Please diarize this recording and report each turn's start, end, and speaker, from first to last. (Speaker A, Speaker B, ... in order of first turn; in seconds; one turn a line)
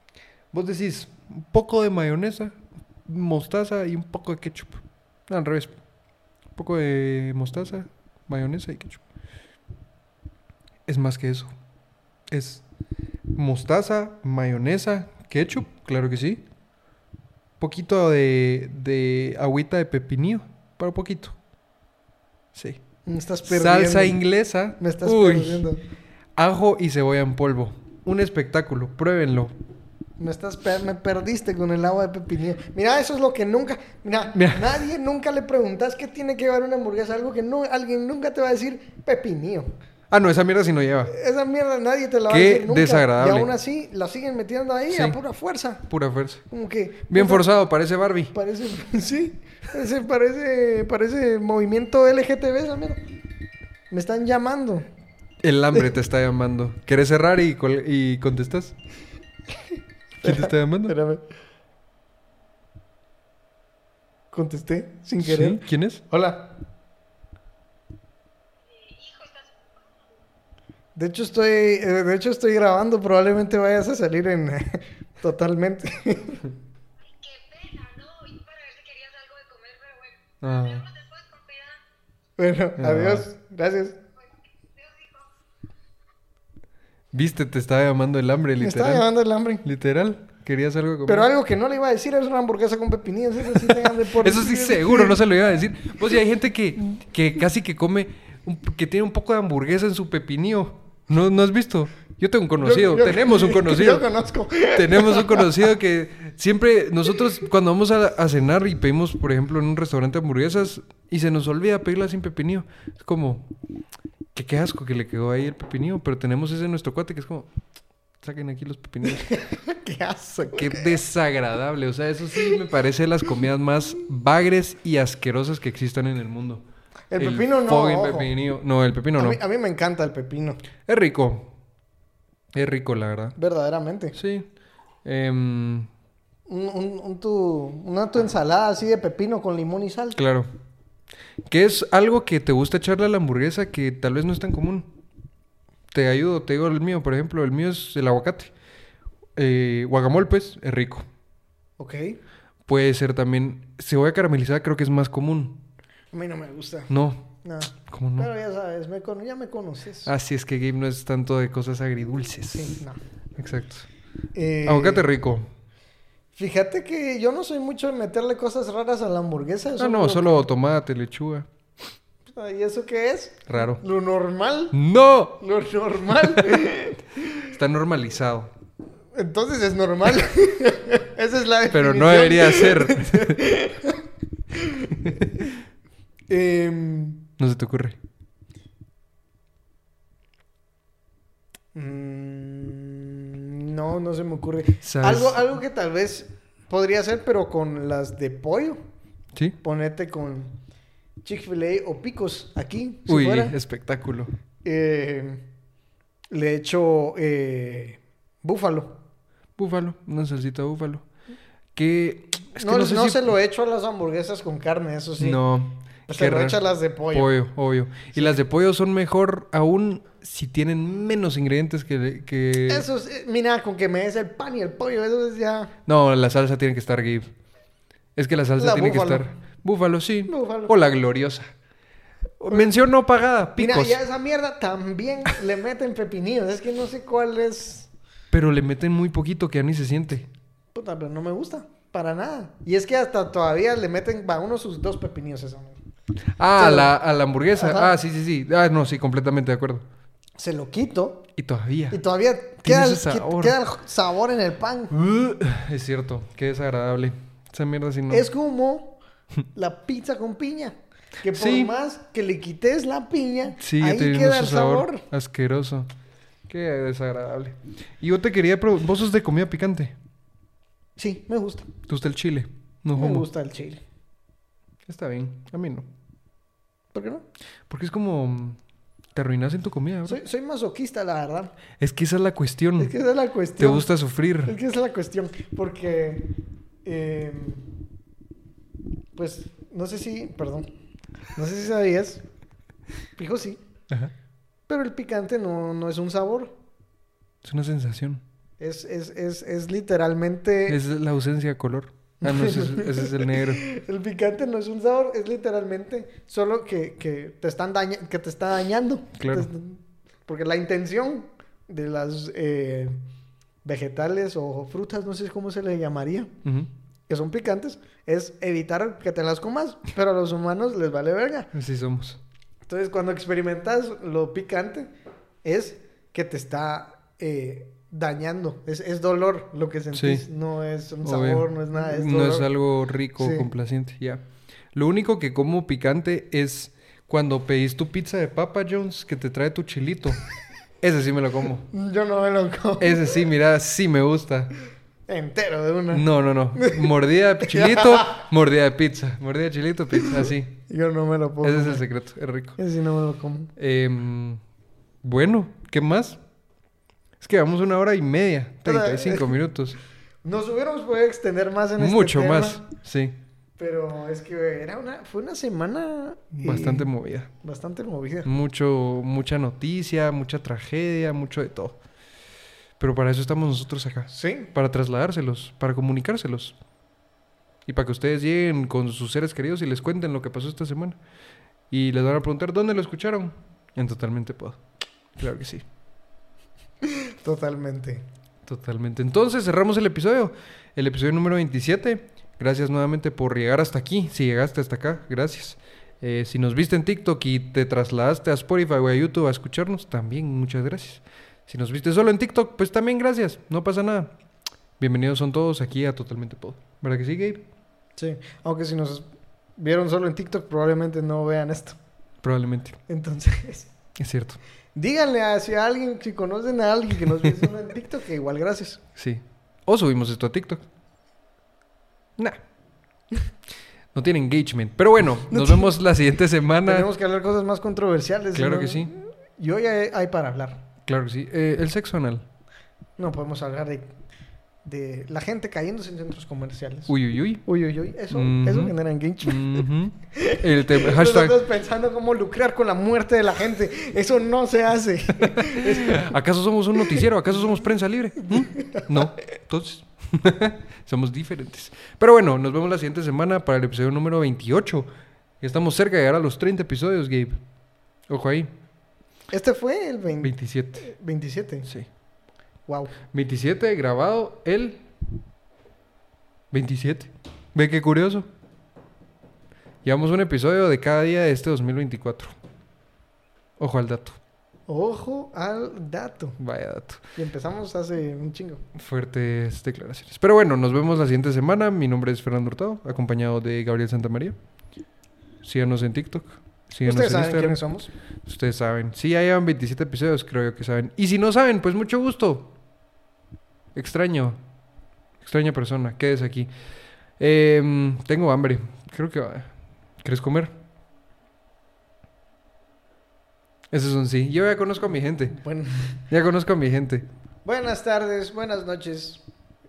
Speaker A: 0.5-5.7
Speaker A: 6.5-9.0
Speaker A: 10.8-11.5
Speaker A: 12.3-12.6
Speaker A: 13.3-16.4
Speaker A: 17.6-21.4
Speaker A: 22.5-22.8
Speaker B: 23.1-24.2
Speaker A: 23.4-25.7
Speaker B: 24.8-25.8
Speaker A: 26.4-29.5
Speaker B: 30.2-39.7
Speaker A: 34.3-34.8
Speaker A: 40.1-41.1
Speaker B: 41.1-45.8
Speaker A: 42.3-43.5
Speaker A: 44.9-45.2
Speaker A: 45.9-46.4
Speaker B: 46.5-47.5
Speaker A: 47.1-48.3
Speaker B: 48.3-53.0
Speaker B: 53.9-54.9
Speaker A: 55.4-58.7
Speaker A: 60.2-60.9
Speaker B: 60.2-61.2
Speaker B: 64.3-66.6
Speaker A: 65.2-66.0
Speaker C: 68.6-70.1
Speaker B: 71.0-76.5
Speaker C: 77.0-81.8
Speaker A: 80.4-80.8
Speaker B: 82.4-84.0
Speaker A: 82.8-83.2
Speaker C: 84.7-85.3
Speaker A: 87.1-89.0
Speaker B: 88.6-89.6
Speaker A: 89.6-91.3
Speaker B: 91.0-95.2
Speaker A: 93.5-104.0
Speaker B: 102.6-105.6
Speaker A: 104.7-113.5
Speaker A: 114.3-117.5
Speaker A: 118.2-119.3
Speaker B: 119.0-121.0
Speaker A: 120.5-126.6
Speaker B: 127.1-128.3
Speaker A: 127.2-129.4
Speaker B: 129.2-130.6
Speaker A: 130.9-131.5
Speaker A: 132.5-133.3
Speaker B: 133.4-134.2
Speaker A: 134.1-134.5
Speaker A: 135.0-135.9
Speaker B: 136.5-140.2
Speaker A: 140.2-140.5
Speaker A: 141.4-144.9
Speaker A: 145.9-148.5
Speaker A: 149.3-151.1
Speaker B: 151.8-152.2
Speaker A: 152.7-155.6
Speaker B: 156.1-156.9
Speaker A: 156.9-158.3
Speaker B: 157.4-160.1
Speaker A: 160.0-162.8
Speaker B: 162.5-163.0
Speaker A: 163.4-163.9
Speaker B: 164.3-165.1
Speaker A: 164.6-165.5
Speaker B: 166.3-170.3
Speaker A: 169.8-171.5
Speaker B: 172.3-174.8
Speaker A: 173.5-173.8
Speaker A: 174.7-175.4
Speaker B: 175.3-177.3
Speaker A: 176.2-176.7
Speaker A: 177.4-178.5
Speaker B: 179.1-185.5
Speaker A: 181.7-183.5
Speaker A: 184.9-185.5
Speaker B: 186.3-187.3
Speaker A: 187.4-188.0
Speaker B: 191.7-198.8
Speaker A: 194.8-195.4
Speaker B: 199.6-200.6
Speaker B: 201.2-203.6
Speaker A: 203.1-204.3
Speaker B: 204.6-205.4
Speaker B: 206.3-209.0
Speaker A: 209.6-211.0
Speaker A: 211.8-213.3
Speaker B: 212.6-215.4
Speaker A: 215.2-216.6
Speaker B: 216.1-217.4
Speaker A: 217.1-222.8
Speaker B: 222.7-225.7
Speaker A: 225.8-227.3
Speaker A: 228.2-231.5
Speaker B: 228.6-229.3
Speaker B: 230.3-230.8
Speaker A: 232.4-234.0
Speaker B: 233.6-237.9
Speaker A: 238.3-240.3
Speaker B: 240.7-245.8
Speaker A: 246.4-249.8
Speaker B: 246.6-246.9
Speaker B: 247.5-247.9
Speaker B: 250.4-251.3
Speaker A: 251.4-252.0
Speaker B: 251.9-254.9
Speaker A: 252.6-253.6
Speaker A: 254.9-258.3
Speaker B: 258.1-259.0
Speaker B: 259.5-265.0
Speaker A: 261.3-261.7
Speaker A: 263.6-265.9
Speaker A: 266.5-269.9
Speaker B: 271.0-271.7
Speaker A: 271.9-273.3
Speaker B: 272.9-273.8
Speaker A: 274.9-275.9
Speaker B: 276.9-277.2
Speaker A: 277.7-278.6
Speaker A: 279.1-280.2
Speaker B: 280.1-281.5
Speaker A: 281.8-282.9
Speaker B: 282.8-283.9
Speaker A: 283.6-284.5
Speaker B: 284.4-286.3
Speaker B: 286.8-287.7
Speaker B: 289.1-290.7
Speaker B: 291.3-292.2
Speaker B: 293.2-293.6
Speaker B: 294.7-296.5
Speaker A: 297.4-298.2
Speaker B: 298.6-300.8
Speaker A: 300.7-303.6
Speaker B: 302.2-313.0
Speaker A: 309.2-309.5
Speaker B: 313.6-316.3
Speaker A: 316.4-316.7
Speaker B: 317.1-321.5
Speaker A: 321.5-322.2
Speaker B: 322.7-324.9
Speaker B: 325.4-332.5
Speaker A: 329.9-330.2
Speaker A: 331.0-340.2
Speaker B: 333.2-333.5
Speaker A: 340.8-341.7
Speaker B: 341.7-343.2
Speaker A: 342.8-344.5
Speaker B: 345.1-346.9
Speaker A: 345.9-350.6
Speaker B: 347.4-348.2
Speaker B: 350.0-351.8
Speaker A: 351.4-352.6
Speaker B: 352.6-353.5
Speaker A: 353.6-354.4
Speaker A: 355.0-356.2
Speaker A: 357.2-359.8
Speaker B: 358.6-359.4
Speaker B: 360.2-362.6
Speaker A: 361.8-363.2
Speaker B: 363.6-368.3
Speaker A: 366.4-367.3
Speaker A: 368.2-371.8
Speaker A: 372.8-376.6
Speaker B: 374.1-374.5
Speaker A: 377.6-381.0
Speaker A: 381.7-384.6
Speaker A: 385.2-385.6
Speaker B: 386.8-388.0
Speaker A: 388.4-404.1
Speaker A: 404.8-407.4
Speaker B: 408.0-411.8
Speaker A: 412.2-412.8
Speaker B: 412.9-413.7
Speaker A: 414.0-414.4
Speaker B: 414.7-418.8
Speaker A: 418.9-420.6
Speaker A: 423.9-426.9
Speaker B: 425.3-425.7
Speaker B: 426.6-430.6
Speaker A: 428.3-428.9
Speaker A: 430.9-432.2
Speaker B: 433.0-433.9
Speaker B: 434.6-446.1
Speaker A: 436.9-437.4
Speaker A: 438.1-441.4
Speaker A: 445.2-454.9
Speaker B: 448.2-449.1
Speaker A: 455.4-457.4
Speaker A: 458.1-458.5
Speaker B: 459.3-461.7
Speaker A: 460.2-460.9
Speaker B: 462.7-462.9
Speaker A: 463.1-464.9
Speaker A: 466.5-468.3
Speaker A: 469.8-472.3
Speaker A: 473.6-474.2
Speaker B: 474.7-476.4
Speaker A: 476.4-477.0
Speaker B: 477.1-478.6
Speaker A: 478.8-484.4
Speaker A: 485.4-487.6
Speaker B: 486.8-487.9
Speaker A: 488.2-492.5
Speaker A: 493.7-494.4
Speaker A: 495.2-496.5
Speaker A: 497.2-500.5
Speaker A: 503.7-505.4
Speaker B: 505.3-506.0
Speaker A: 506.1-507.1
Speaker B: 507.4-509.2